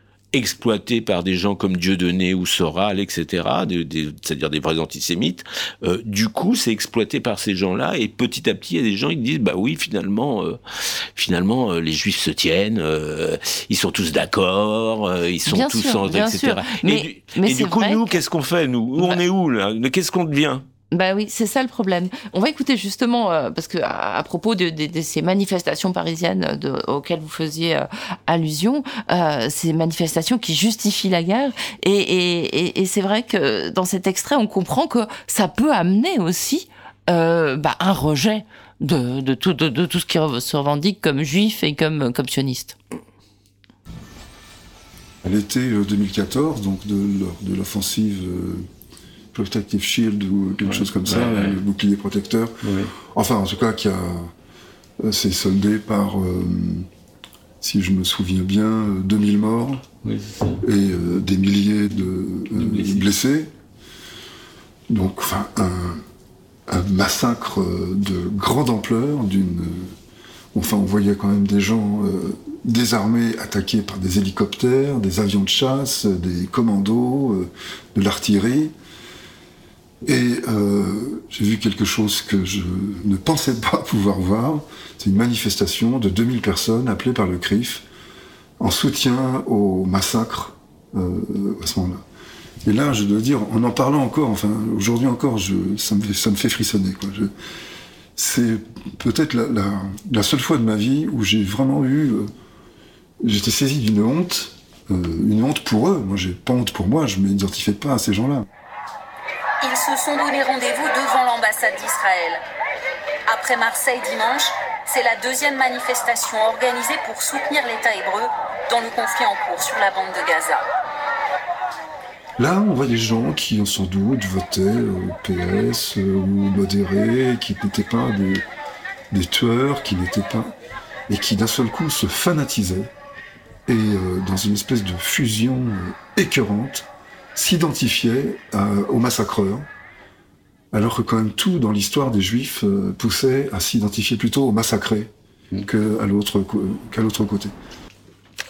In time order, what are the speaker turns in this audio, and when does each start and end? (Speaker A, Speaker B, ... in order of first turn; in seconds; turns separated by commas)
Speaker A: 0.3-10.6, Speaker A: 11.1-20.6, Speaker B: 15.4-18.2, Speaker B: 20.9-42.8, Speaker C: 45.2-48.6, Speaker C: 49.3-54.3, Speaker A: 50.6-51.6, Speaker A: 52.6-52.9, Speaker C: 55.0-56.9, Speaker C: 57.6-59.8, Speaker A: 60.0-60.6, Speaker C: 60.6-63.5, Speaker A: 62.5-63.1, Speaker C: 64.9-66.0, Speaker C: 66.7-70.0, Speaker C: 70.5-78.7, Speaker C: 80.1-87.8, Speaker C: 88.6-92.0, Speaker C: 92.6-97.3, Speaker C: 98.2-102.3, Speaker C: 103.2-108.5, Speaker D: 109.6-112.4, Speaker D: 113.3-120.6, Speaker C: 122.4-128.4, Speaker C: 129.1-130.5, Speaker C: 131.1-132.9, Speaker C: 133.7-139.7, Speaker C: 140.7-147.5